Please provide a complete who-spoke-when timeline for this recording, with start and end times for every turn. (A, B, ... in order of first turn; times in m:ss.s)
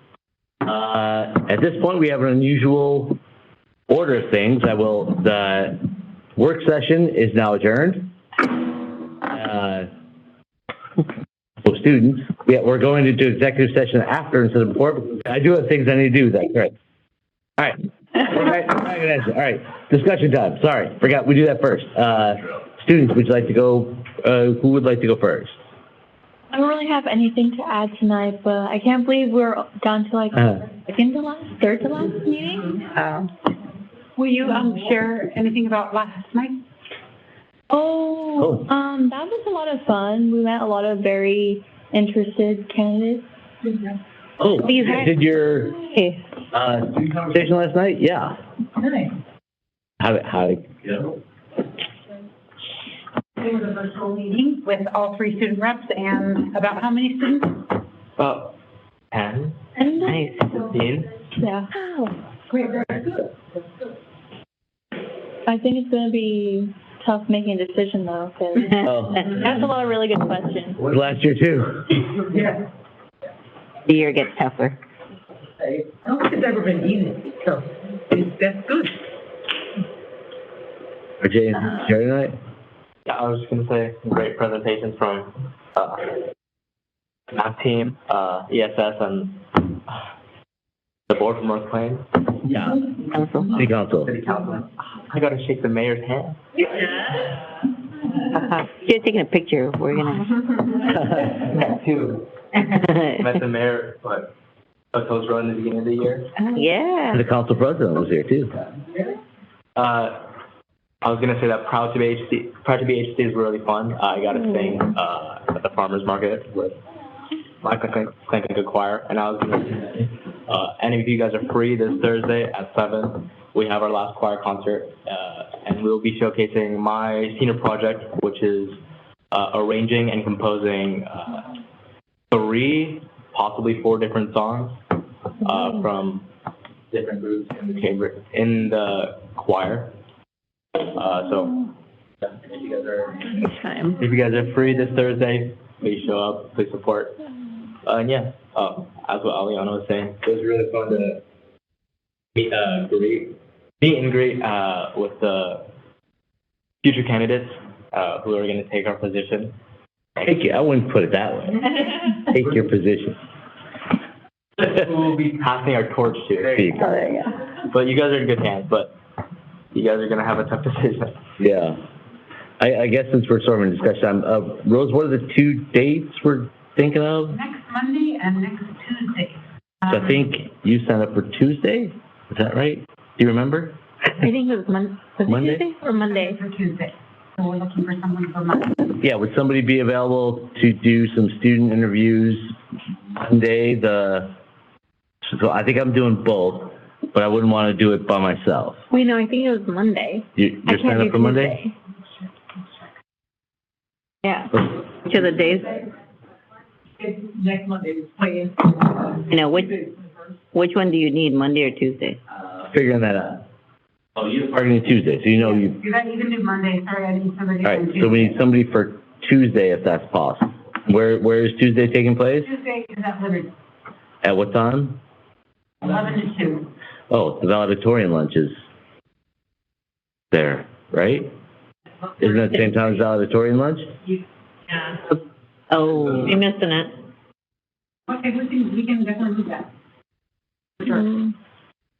0:00.6-0:03.2 A
0:03.9-0:05.8 A
0:06.4-0:08.1 A
0:09.3-0:09.9 A
0:11.6-0:16.7 A
0:17.6-0:25.6 A
0:26.5-0:32.8 B
0:30.3-0:30.6 A
0:34.2-0:36.6 C
0:37.7-0:43.2 B
0:38.4-0:38.7 A
0:43.7-0:43.9 D
0:44.4-0:45.8 A
0:45.8-0:46.2 E
0:46.5-0:48.4 A
0:48.8-0:49.1 D
0:50.0-0:51.1 A
0:53.4-0:57.8 C
0:58.2-0:58.5 F
0:59.1-0:59.6 F
0:59.8-1:00.6 B
1:00.0-1:00.6 E
1:00.7-1:01.1 F
1:01.3-1:02.1 B
1:02.5-1:02.8 C
1:05.4-1:08.8 B
1:08.8-1:09.4 A
1:09.3-1:10.8 B
1:10.8-1:12.0 A
1:13.9-1:14.8 E
1:16.0-1:18.9 D
1:21.2-1:22.3 A
1:23.0-1:26.2 F
1:27.3-1:30.0 F
1:31.1-1:32.3 F
1:32.4-1:32.8 A
1:33.1-1:33.6 E
1:33.5-1:36.4 F
1:33.6-1:34.1 A
1:38.3-1:40.6 E
1:41.2-1:42.2 F
1:42.6-1:43.2 E
1:43.2-1:44.3 F
1:44.9-1:46.3 F
1:46.4-1:47.2 E
1:47.1-1:48.5 A
1:49.8-1:50.3 F
1:51.0-1:56.8 F
1:57.6-2:08.8 F
2:09.3-2:11.5 F
2:12.3-2:14.8 F
2:15.4-2:16.3 F
2:16.9-2:20.0 F
2:20.9-2:21.6 F
2:22.4-2:23.4 F
2:24.0-2:27.2 F
2:27.8-2:31.2 F
2:32.4-2:35.6 F
2:36.8-2:39.5 F
2:40.2-2:43.2 A
2:44.6-2:46.5 F
2:46.4-2:47.0 A
2:46.8-2:47.2 B
2:47.7-2:48.9 F
2:49.7-2:51.2 F
2:51.4-2:51.8 A
2:52.6-2:57.4 A
2:57.3-2:59.4 C
2:59.9-3:03.8 A
3:04.2-3:06.3 E
3:05.2-3:05.6 A
3:05.9-3:08.9 C
3:09.0-3:12.5 A
3:13.1-3:14.3 A
3:15.2-3:18.8 A
3:18.9-3:21.7 E
3:20.4-3:21.6 A
3:24.2-3:25.8 E
3:27.0-3:29.9 D
3:29.3-3:29.7 E
3:30.5-3:32.2 E
3:32.7-3:33.4 A
3:34.2-3:35.8 A
3:35.6-3:38.4 C
3:37.6-3:42.5 A
3:42.4-3:43.5 C
3:44.2-3:45.0 A
3:45.8-3:46.7 C
3:47.1-3:48.5 A
3:50.3-3:51.3 A
3:52.2-3:53.9 A
3:54.7-3:55.2 E
3:55.7-3:56.8 E
3:58.1-3:59.7 C
4:00.8-4:01.1 C